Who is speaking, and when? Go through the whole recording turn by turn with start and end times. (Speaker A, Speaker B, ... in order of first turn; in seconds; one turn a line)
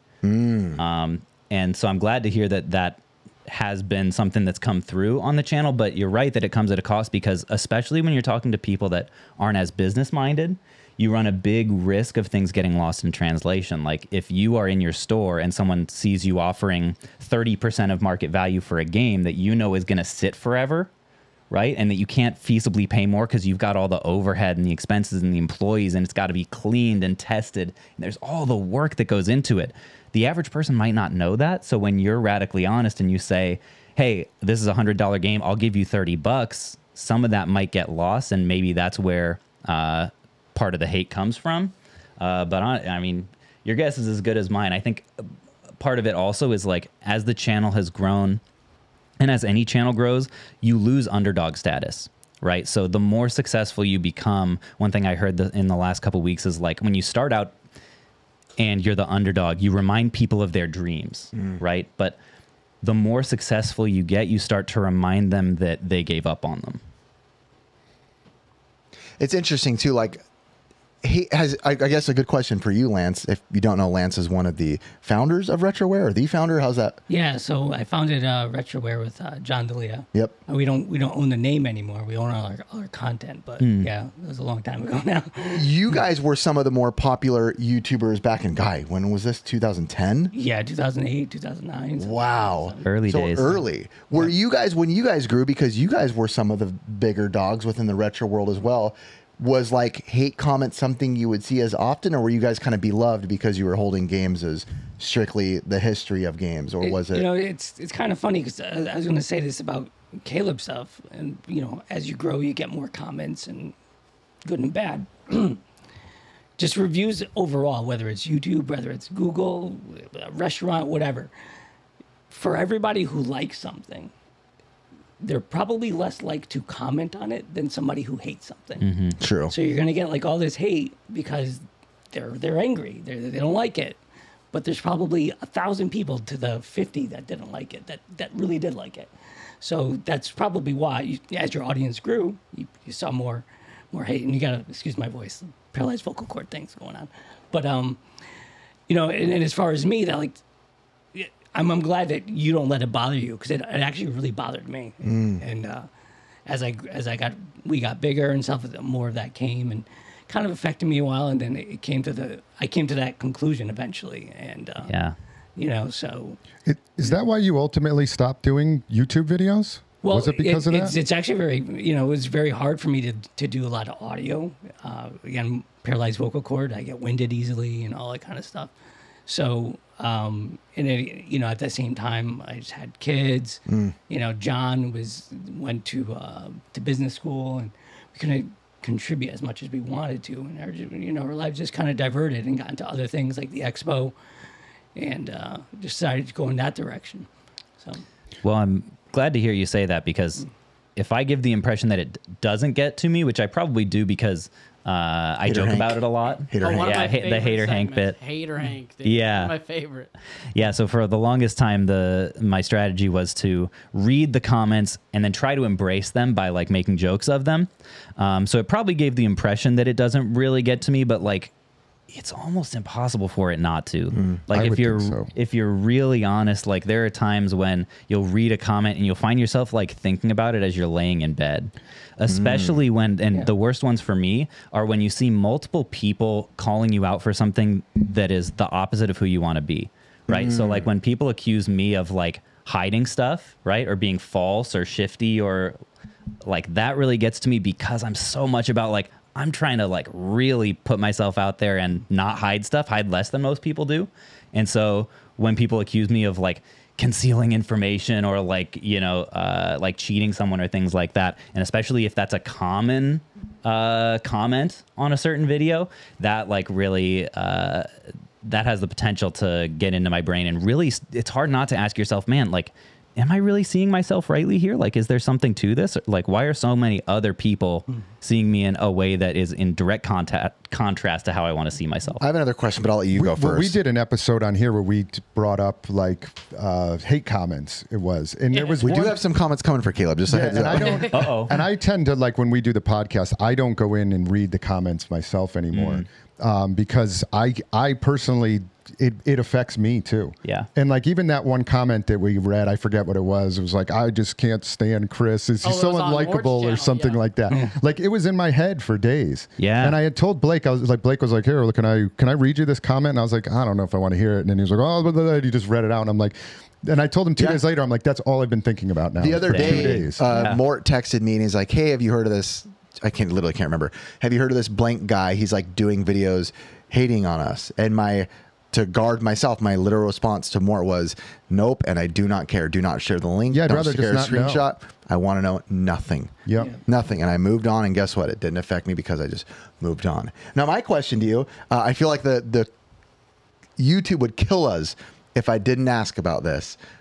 Speaker A: 0.2-0.8
Speaker B: 0.8-20.9
Speaker B: 21.5-45.0
Speaker B: 45.8-48.4
Speaker B: 49.2-57.5
Speaker B: 58.6-62.2
Speaker A: 61.3-61.6
Speaker B: 62.8-66.8
Speaker A: 69.2-70.2
Speaker A: 71.0-77.0
Speaker C: 77.1-85.7
Speaker B: 83.6-83.9
Speaker A: 85.5-90.3
Speaker C: 90.3-92.8
Speaker A: 92.0-107.3
Speaker B: 92.8-93.6
Speaker C: 106.8-113.7
Speaker C: 114.4-115.6
Speaker C: 116.6-121.3
Speaker C: 122.3-124.1
Speaker C: 125.2-128.8
Speaker B: 128.8-129.2
Speaker A: 129.2-129.5
Speaker C: 129.5-134.0
Speaker C: 134.5-139.1
Speaker C: 139.6-148.0
Speaker C: 148.9-150.4
Speaker C: 151.1-155.9
Speaker A: 155.0-155.4
Speaker C: 156.4-164.9
Speaker B: 164.9-165.1
Speaker C: 165.6-166.4
Speaker D: 166.6-171.0
Speaker C: 170.0-178.7
Speaker C: 179.3-194.1
Speaker A: 183.7-183.9
Speaker C: 194.9-197.3
Speaker B: 198.4-200.4
Speaker B: 200.9-208.2
Speaker A: 205.4-206.0
Speaker A: 206.5-207.1
Speaker E: 206.6-210.1
Speaker B: 209.0-209.5
Speaker B: 210.5-221.5
Speaker B: 222.1-245.8
Speaker A: 224.1-224.4
Speaker D: 224.5-225.3
Speaker A: 232.3-232.8
Speaker A: 240.3-240.9
Speaker B: 246.4-267.9
Speaker B: 268.4-282.2
Speaker A: 282.2-283.8
Speaker D: 283.1-289.2
Speaker A: 288.8-291.1
Speaker D: 290.3-320.3
Speaker B: 291.1-291.5
Speaker B: 295.7-296.0
Speaker E: 305.6-307.2
Speaker B: 309.6-310.0
Speaker A: 319.2-342.7
Speaker B: 319.5-320.6
Speaker D: 333.5-334.6
Speaker D: 336.4-336.7
Speaker A: 343.8-346.8